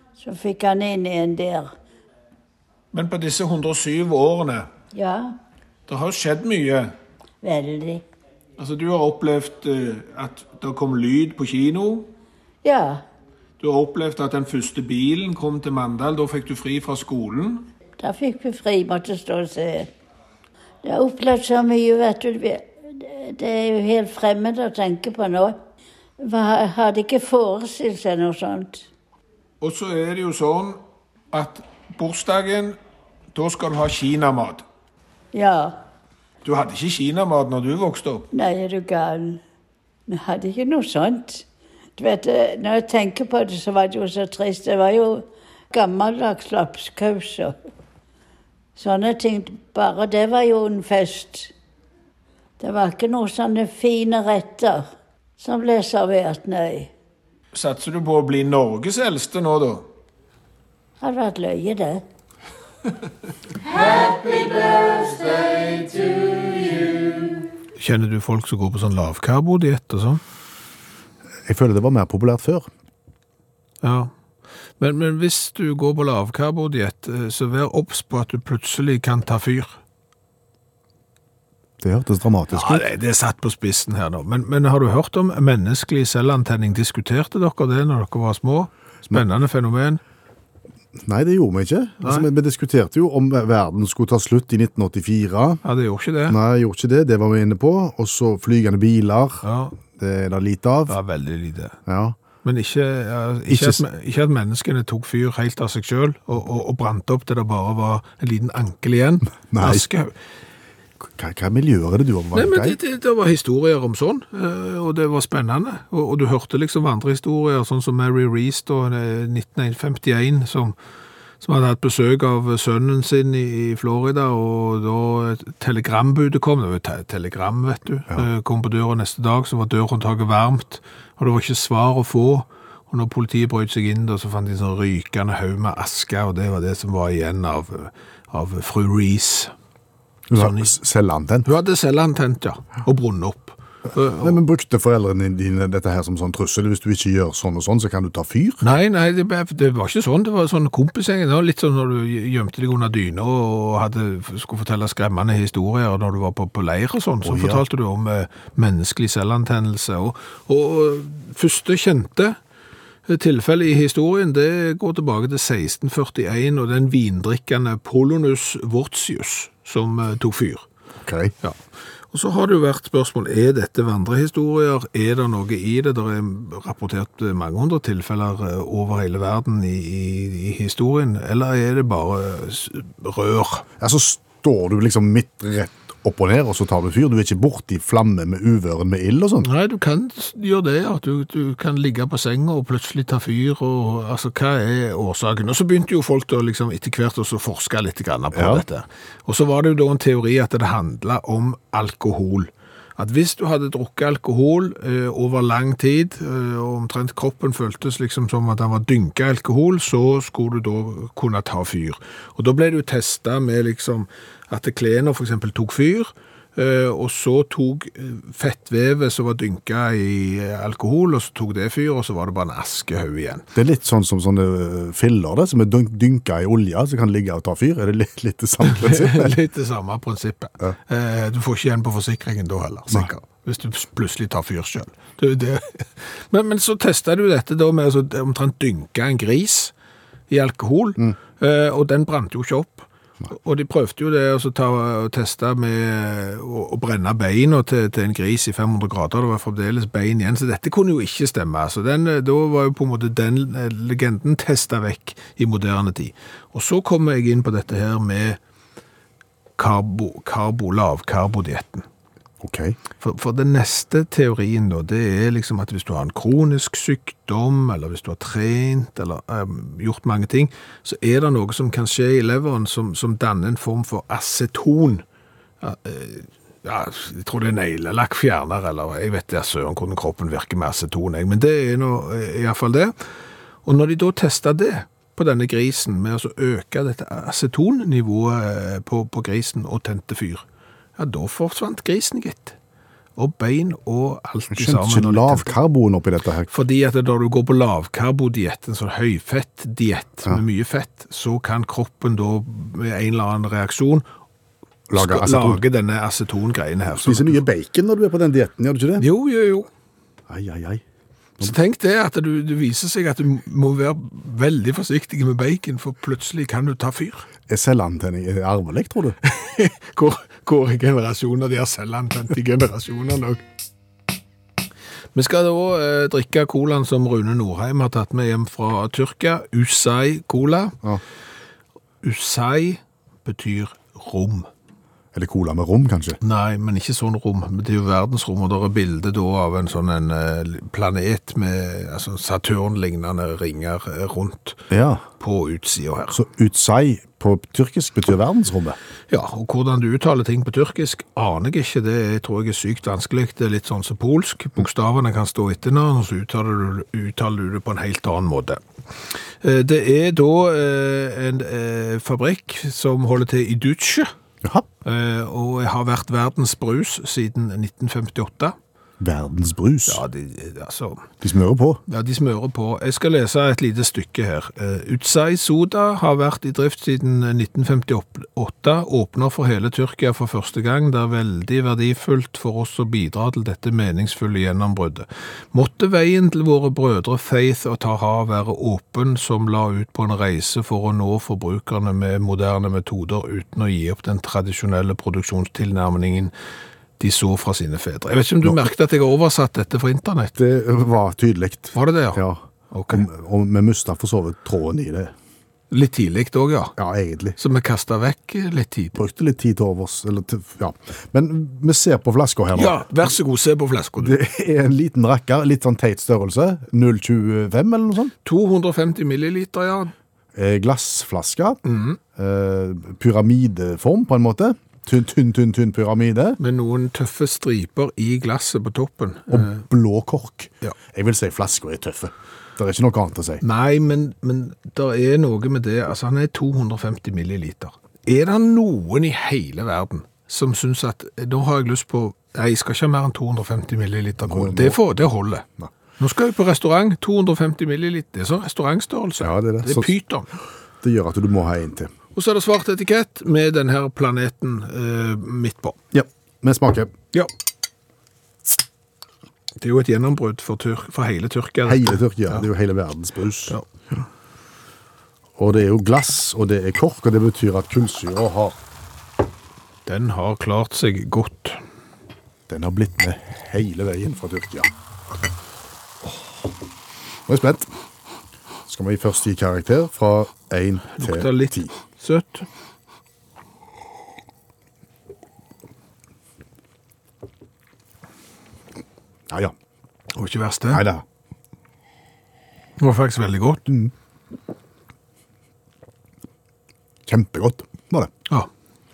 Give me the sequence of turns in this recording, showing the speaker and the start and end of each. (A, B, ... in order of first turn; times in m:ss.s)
0:00.2-0:01.7 A
0:02.9-0:04.7 B
0:04.9-0:05.3 A
0:05.9-0:06.9 B
0:07.4-0:08.0 A
0:08.6-0:12.1 B
0:12.6-0:13.0 A
0:13.6-0:17.7 B
0:18.0-0:19.9 A
0:20.8-0:25.6 A
0:26.2-0:28.9 A
0:29.6-0:30.8 B
0:31.3-0:32.8 B
0:33.3-0:34.6 B
0:35.3-0:35.8 A
0:36.4-0:38.3 B
0:38.3-0:39.4 A
0:40.1-0:41.5 A
0:42.0-0:47.6 A
0:48.8-0:51.5 A
0:52.6-0:54.9 A
0:55.4-0:56.9 A
0:57.5-0:59.9 B
1:01.0-1:02.0 A
1:04.0-1:07.0 B
1:07.8-1:10.2 B
1:11.5-1:12.7 C
1:13.8-1:14.1 B
1:14.8-1:19.8 B
1:21.8-1:22.8 C
1:22.5-1:30.0 B
1:31.0-1:35.6 C
1:32.0-1:32.3 B
1:35.6-1:36.4 B
1:36.3-1:41.0 C
1:39.4-1:39.8 B
1:40.9-1:41.8 B
1:41.9-1:42.2 C
1:42.4-1:50.1 B
1:43.5-1:43.8 C
1:49.5-1:49.9 C
1:51.1-1:52.8 C
1:52.3-2:00.8 B
2:01.4-2:19.5 B
2:20.3-2:21.5 C
2:20.3-2:20.7 B
2:21.4-2:24.4 B
2:24.2-2:28.6 C
2:28.6-2:42.4 B
2:37.2-2:37.6 C
2:43.1-2:50.7 B
2:51.0-2:51.3 C
2:52.1-3:03.6 B
3:03.8-3:09.5 C
3:09.4-3:43.5 B
3:18.3-3:18.6 C
3:43.6-3:49.4 C
3:48.6-3:59.7 B
4:00.3-4:18.4 B
4:19.6-4:21.8 B
4:22.4-4:22.8 C
4:23.0-4:35.0 B
4:35.6-4:42.9 B
4:43.6-4:50.4 B
4:51.0-4:52.6 B
4:53.2-4:55.6 B
4:54.5-4:56.5 C
4:56.5-5:04.0 B
5:04.9-5:05.6 C
5:05.0-5:07.4 B
5:06.9-5:09.0 C
5:09.0-5:09.7 B
5:10.3-5:10.8 C
5:11.4-5:17.3 B
5:17.5-5:19.2 C
5:19.2-5:23.4 B
5:25.2-5:30.8 B
5:32.0-5:34.5 B
5:35.1-5:36.2 C
5:36.2-5:44.6 B
5:44.7-5:45.0 C
5:45.2-5:46.2 B
5:46.1-5:48.8 C
5:49.1-5:58.6 B
5:59.4-6:04.1 B
6:04.8-6:08.6 B
6:09.0-6:10.0 C
6:09.9-6:11.1 B
6:11.2-6:11.8 C
6:11.9-6:36.3 B
6:37.0-6:40.4 B
6:40.4-6:45.1 C
6:41.7-6:43.0 B
6:45.7-6:46.8 B
6:46.8-6:47.4 C
6:47.4-6:49.0 B
6:49.0-6:52.9 C
6:52.5-6:54.2 B
6:54.0-6:58.1 C
6:58.2-6:59.9 B
7:00.4-7:01.6 C
7:01.6-7:02.0 B
7:02.2-7:06.4 C
7:06.4-7:09.6 B
7:09.3-7:13.4 C
7:13.4-7:25.5 B
7:24.2-7:24.8 C
7:26.0-7:30.3 B
7:29.2-7:29.9 C
7:30.8-7:31.9 C
7:32.2-7:35.8 B
7:35.9-7:36.9 C
7:39.6-7:42.5 B
7:41.6-7:43.6 C
7:45.4-7:48.6 C
7:49.9-7:51.6 B
7:52.5-7:54.7 C
7:57.3-7:57.7 C
7:58.7-8:01.7 C
8:01.0-8:02.5 B
8:10.1-8:10.9 B
8:10.7-8:11.0 C
8:12.8-8:13.7 B
8:17.1-8:18.1 C